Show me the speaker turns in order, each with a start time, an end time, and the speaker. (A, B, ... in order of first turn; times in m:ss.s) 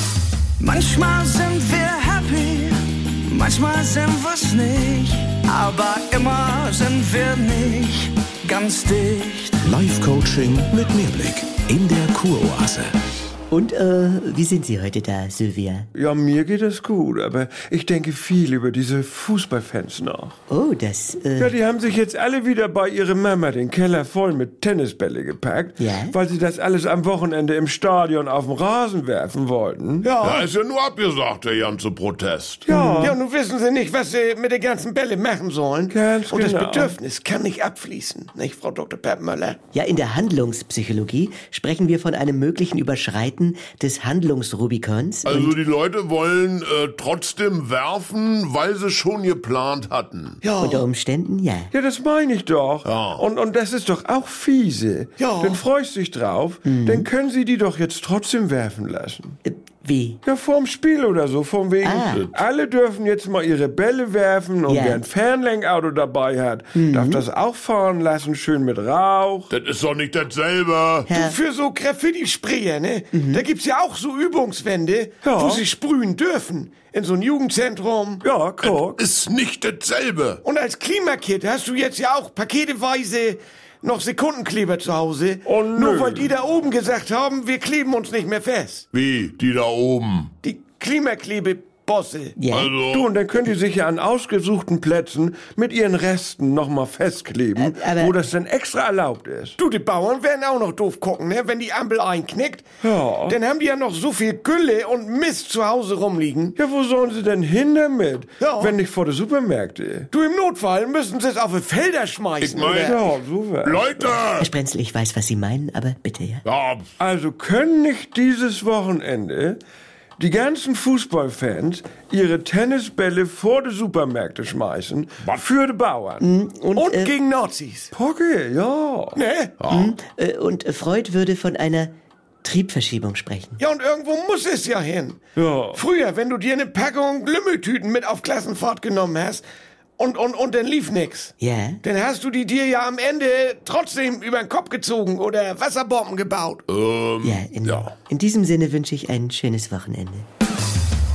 0:00.6-0:09.6 A
0:09.6-0:12.9 B
0:13.5-0:15.9 C
0:15.9-0:20.4 D
0:20.5-0:21.6 C
0:21.4-0:30.1 D
0:25.8-0:26.2 C
0:30.0-0:30.5 E
0:30.2-0:32.6 F
0:32.6-0:33.2 D
0:32.7-0:33.2 C
0:33.0-0:39.6 E
0:35.9-0:37.0 D
0:39.7-0:45.6 C
0:45.2-0:50.4 F
0:50.4-0:50.8 E
0:50.6-0:51.7 C
0:51.7-0:59.4 D
0:52.8-0:53.2 F
0:55.2-0:55.6 E
0:56.6-0:57.1 C
0:59.4-1:00.2 C
1:00.2-1:09.5 D
1:01.8-1:02.3 C
1:04.7-1:05.0 C
1:06.7-1:07.2 C
1:09.5-1:11.1 F
1:11.1-1:11.4 C
1:11.1-1:18.2 E
1:13.1-1:13.4 C
1:15.2-1:15.6 D
1:18.2-1:19.0 D
1:18.6-1:20.4 F
1:20.4-1:28.9 E
1:25.4-1:26.3 D
1:28.9-1:30.3 F
1:30.4-1:32.4 E
1:32.4-1:32.7 C
1:32.4-1:33.1 F
1:32.9-1:39.6 D
1:37.6-1:38.2 C
1:39.6-1:42.7 E
1:42.8-1:43.4 D
1:43.3-1:46.6 E
1:46.6-1:50.1 D
1:48.4-1:48.8 E
1:50.1-1:53.0 E
1:52.4-1:53.0 F
1:52.7-1:53.9 D
1:53.6-1:54.5 F
1:54.4-1:56.4 C
1:56.4-1:56.9 F
1:57.0-1:59.6 D
2:00.2-2:06.2 D
2:06.2-2:07.1 C
2:06.8-2:07.9 E
2:07.9-2:09.2 D
2:09.2-2:09.6 E
2:09.6-2:09.9 F
2:09.7-2:11.9 C
2:12.4-2:13.6 C
2:13.6-2:15.2 E
2:15.4-2:15.8 D
2:15.7-2:19.4 E
2:20.0-2:26.6 E
2:21.4-2:21.8 C
2:26.7-2:27.9 F
2:27.2-2:30.3 C